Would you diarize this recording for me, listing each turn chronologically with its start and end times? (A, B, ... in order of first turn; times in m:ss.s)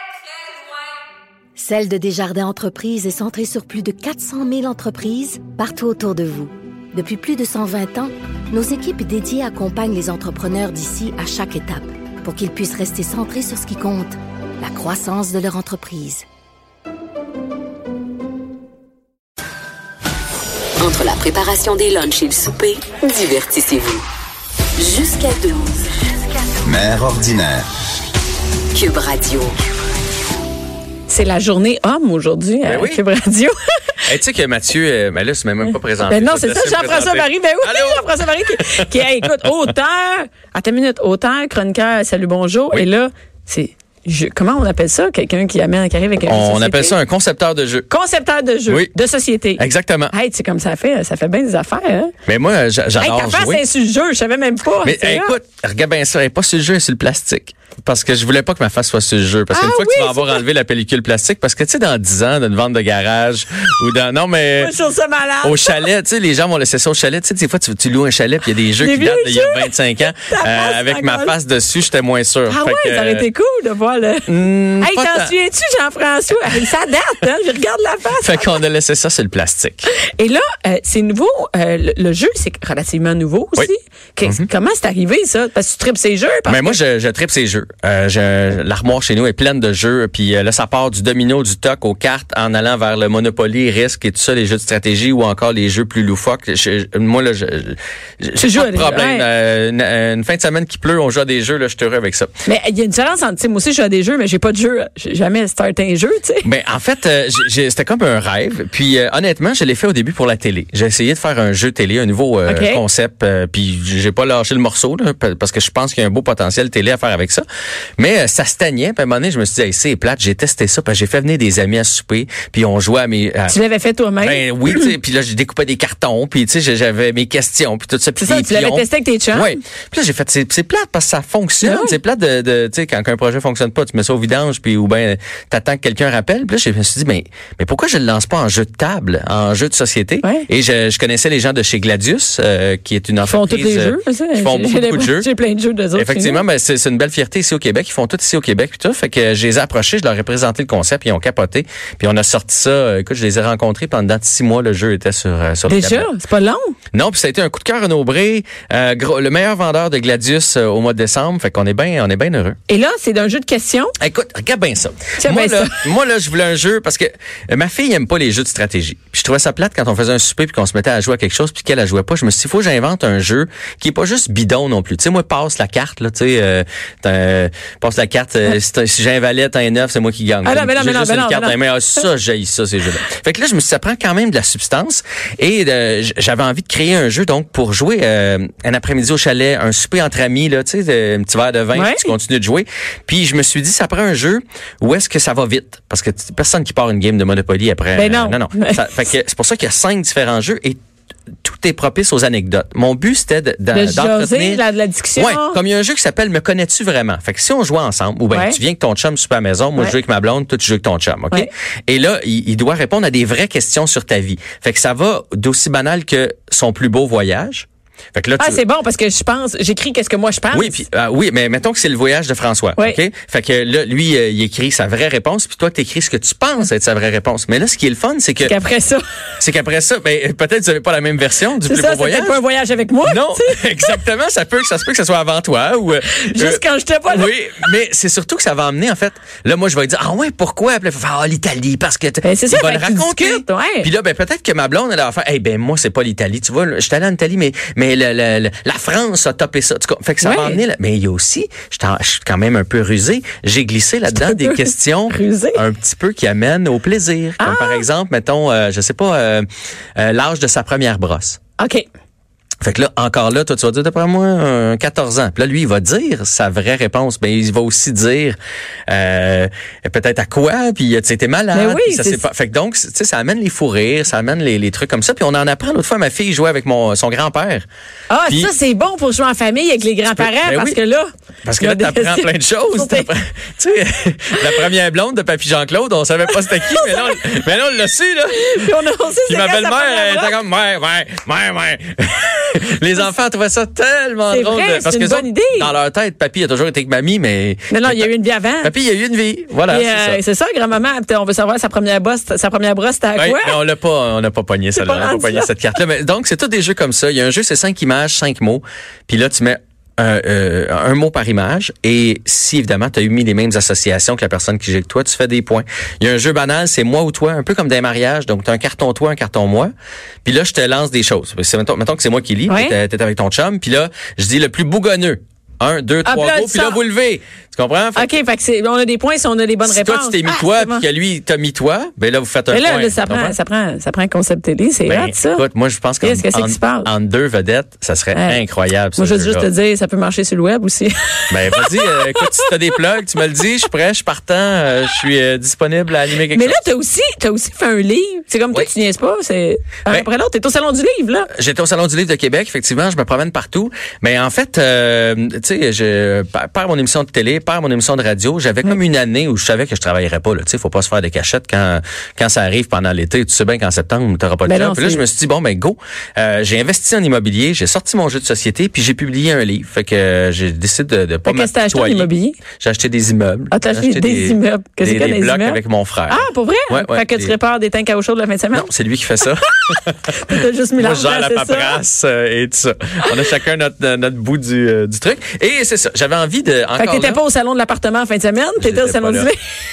0:01.6-0:16.2 A
0:20.8-0:24.0 B
0:24.8-0:25.8 B
0:26.6-0:27.7 B
0:28.7-0:29.5 B
0:31.1-0:33.5 C
0:32.6-0:33.0 D
0:34.0-0:39.4 D
0:36.1-0:47.0 C
0:46.2-0:47.9 D
0:47.9-0:52.1 C
0:48.7-0:48.9 D
0:49.6-0:50.2 D
0:52.2-0:53.6 D
0:53.0-0:55.4 C
0:54.8-1:04.7 D
0:59.5-1:00.4 C
1:04.6-1:05.8 C
1:05.4-1:13.2 D
1:08.8-1:11.3 C
1:12.5-1:14.3 C
1:14.3-1:15.3 D
1:14.8-1:18.6 C
1:18.2-1:19.9 D
1:19.9-1:26.8 C
1:26.5-1:42.3 D
1:38.4-1:39.2 C
1:42.4-1:46.5 C
1:46.4-1:57.4 D
1:52.5-1:52.8 C
1:58.0-2:03.6 D
2:03.5-2:04.5 C
2:04.2-2:25.3 D
2:08.2-2:09.6 C
2:11.6-2:12.0 C
2:23.2-2:26.4 C
2:25.9-2:36.1 D
2:35.7-2:36.7 C
2:36.9-2:42.6 D
2:42.7-2:43.9 C
2:44.0-3:20.8 D
2:45.2-2:45.8 C
3:00.4-3:02.0 C
3:11.7-3:12.1 C
3:18.0-3:19.0 C
3:21.4-3:24.6 D
3:23.7-3:25.6 C
3:25.2-3:38.6 D
3:28.3-3:28.6 C
3:38.4-3:40.8 C
3:40.5-3:48.5 D
3:48.4-3:49.0 C
3:49.4-3:52.4 D
3:51.7-3:54.0 C
3:53.0-4:19.4 D
3:56.1-3:57.3 C
4:02.2-4:03.9 C
4:10.2-4:10.6 C
4:14.1-4:15.6 C
4:17.4-4:17.8 C
4:20.0-4:21.4 D
4:21.6-4:21.8 C
4:22.6-4:28.4 D
4:28.9-4:37.6 D
4:31.5-4:32.2 C
4:38.1-4:43.1 C
4:40.2-4:40.8 D
4:41.4-4:58.1 D
4:48.3-4:50.3 C
4:54.3-4:55.7 C
4:57.7-4:58.7 C
4:58.6-5:00.2 D
4:59.7-5:03.6 C
5:03.2-5:19.7 D
5:04.7-5:05.5 C
5:20.2-5:28.1 D
5:22.5-5:22.8 C
5:26.0-5:26.8 C
5:28.0-5:30.8 C
5:29.6-5:33.4 D
5:32.5-5:35.4 C
5:34.9-5:39.5 D
5:36.0-5:36.9 C
5:38.1-5:38.4 C
5:39.0-5:42.5 C
5:41.3-5:46.6 D
5:46.3-5:51.3 C
5:51.3-6:17.4 D
6:04.4-6:05.0 C
6:11.2-6:12.4 C
6:13.5-6:18.7 C
6:18.5-6:20.1 D
6:19.2-6:21.8 C
6:20.8-6:27.2 D
6:26.8-6:29.4 C
6:28.6-6:29.3 D